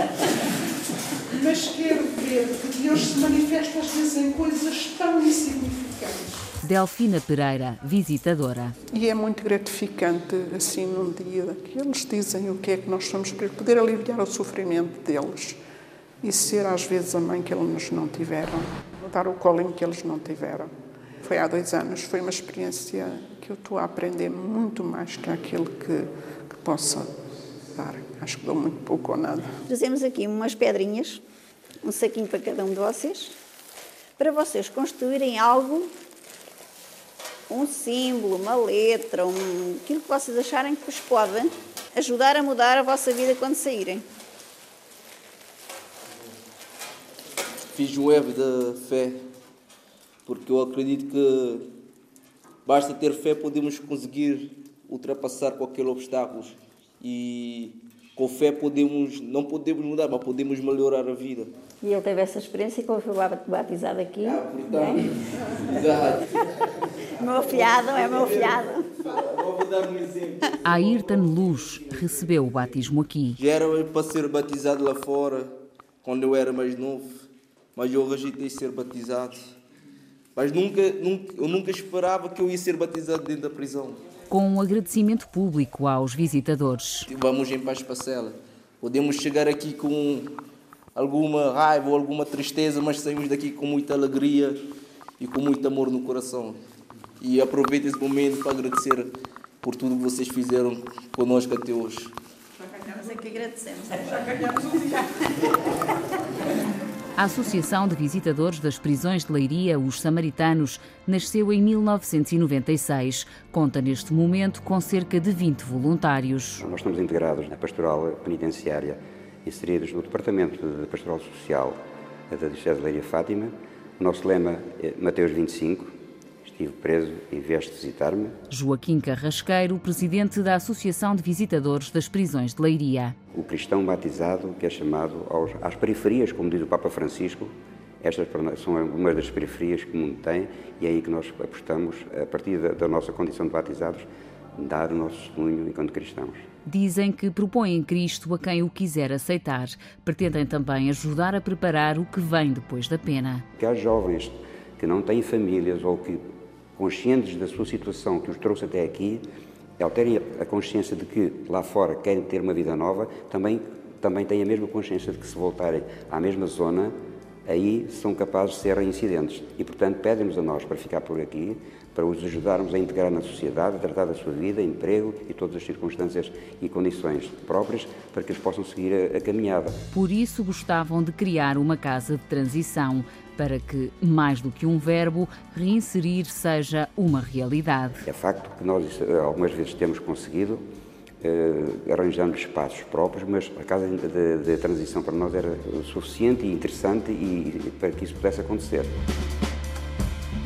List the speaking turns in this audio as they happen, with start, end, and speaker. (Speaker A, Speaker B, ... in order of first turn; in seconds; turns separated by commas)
Speaker A: 1.3-6.3, Speaker B: 6.6-8.7, Speaker A: 8.9-15.6, Speaker A: 16.2-27.2, Speaker A: 27.7-29.6, Speaker C: 29.7-31.2, Speaker C: 31.8-33.3, Speaker C: 34.2-35.9, Speaker C: 37.5-44.0, Speaker D: 47.7-49.3, Speaker D: 50.2-51.7, Speaker D: 52.6-61.5, Speaker C: 61.8-65.0, Speaker D: 64.2-66.2, Speaker C: 67.2-68.9, Speaker D: 69.5-70.4, Speaker B: 70.6-73.4, Speaker D: 73.4-77.1, Speaker D: 77.7-79.5, Speaker D: 80.3-84.0, Speaker B: 84.3-87.1, Speaker D: 87.1-90.3, Speaker D: 90.9-94.7, Speaker D: 95.2-96.6, Speaker D: 97.2-99.1, Speaker D: 99.6-102.1, Speaker C: 102.7-104.6, Speaker B: 107.2-116.6, Speaker E: 116.6-121.8, Speaker E: 122.3-125.9, Speaker E: 126.4-128.3, Speaker B: 128.5-133.2, Speaker E: 133.3-146.4, Speaker B: 146.7-153.4, Speaker E: 153.6-156.2, Speaker E: 156.8-159.3, Speaker E: 159.8-166.9, Speaker E: 167.4-179.8, Speaker B: 179.9-188.0, Speaker E: 188.0-190.6, Speaker E: 191.2-198.9